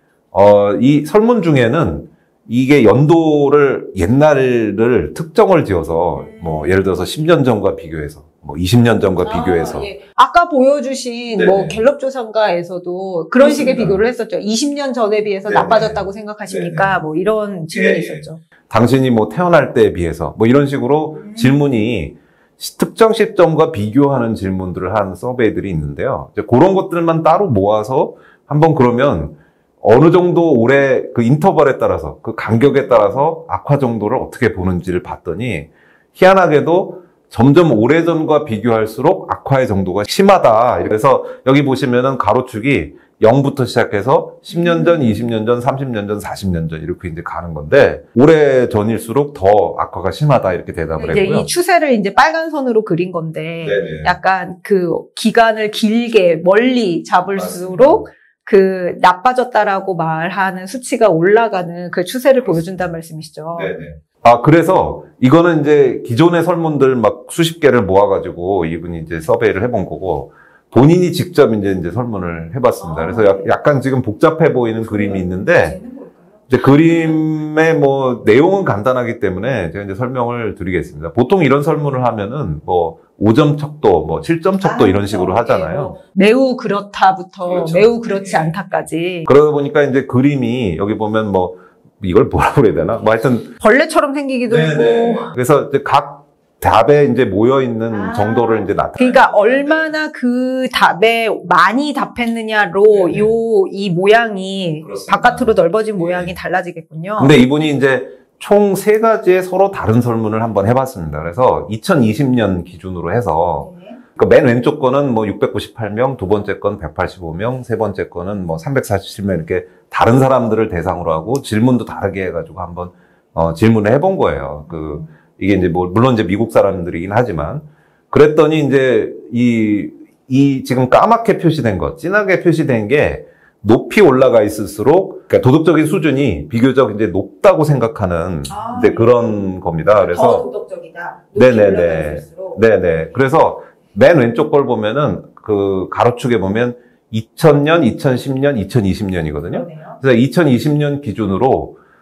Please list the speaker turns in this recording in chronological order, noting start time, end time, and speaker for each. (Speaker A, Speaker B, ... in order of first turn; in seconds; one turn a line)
Speaker A: 0.3-9.9
Speaker B: 6.2-6.7
Speaker B: 9.2-18.4
Speaker A: 11.4-11.8
Speaker A: 13.4-14.0
Speaker A: 15.5-17.0
Speaker A: 17.7-51.5
Speaker B: 21.3-21.5
Speaker B: 32.6-32.9
Speaker B: 44.5-45.1
Speaker B: 51.0-63.7
Speaker A: 53.6-54.1
Speaker A: 57.3-58.1
Speaker A: 63.5-75.8
Speaker B: 72.8-73.5
Speaker B: 74.9-77.1
Speaker A: 76.5-85.9
Speaker B: 84.6-89.3
Speaker A: 87.4-88.6
Speaker A: 89.2-93.5
Speaker B: 93.6-95.3
Speaker A: 94.5-99.9
Speaker B: 97.9-107.4
Speaker A: 102.9-103.3
Speaker A: 104.8-106.3
Speaker A: 107.2-140.4
Speaker B: 113.6-114.0
Speaker B: 138.5-139.3
Speaker B: 140.0-142.6
Speaker A: 141.4-151.8
Speaker B: 149.5-150.0